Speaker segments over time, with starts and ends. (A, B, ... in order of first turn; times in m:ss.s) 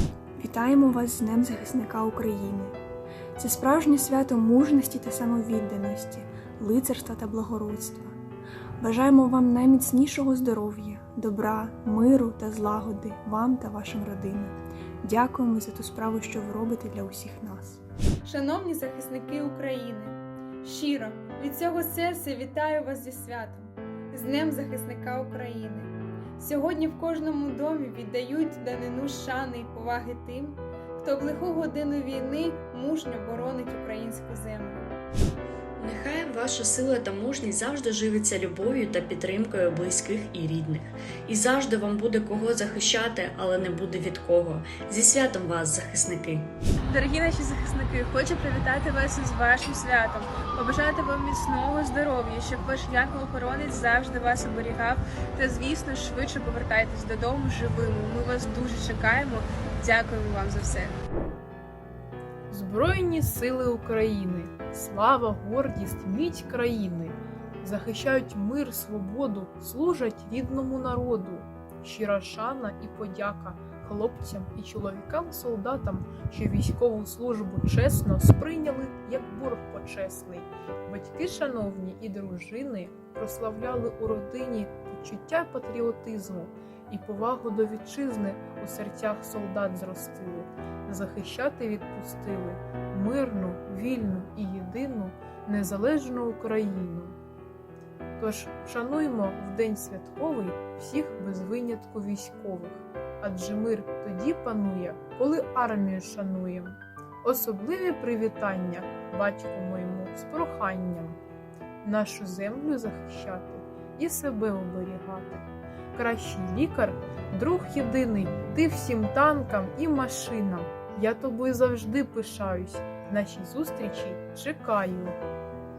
0:00.4-0:02.7 A
0:03.4-0:08.1 A
0:08.8-0:17.8 A
0:18.3-0:20.1 B
0:18.5-0:19.9 C
0:20.6-0:23.7 C
0:20.7-0:23.6 B
0:24.1-0:25.9 B
0:24.2-0:25.7 C
0:26.4-0:27.2 C
0:26.5-0:34.9 B
0:28.1-0:30.3 C
0:32.2-0:33.9 C
0:35.8-0:46.5 D
0:46.8-1:01.0 C
1:02.5-1:37.2 E
1:38.2-1:51.2 E
1:51.8-1:55.4 E
1:56.0-2:05.2 E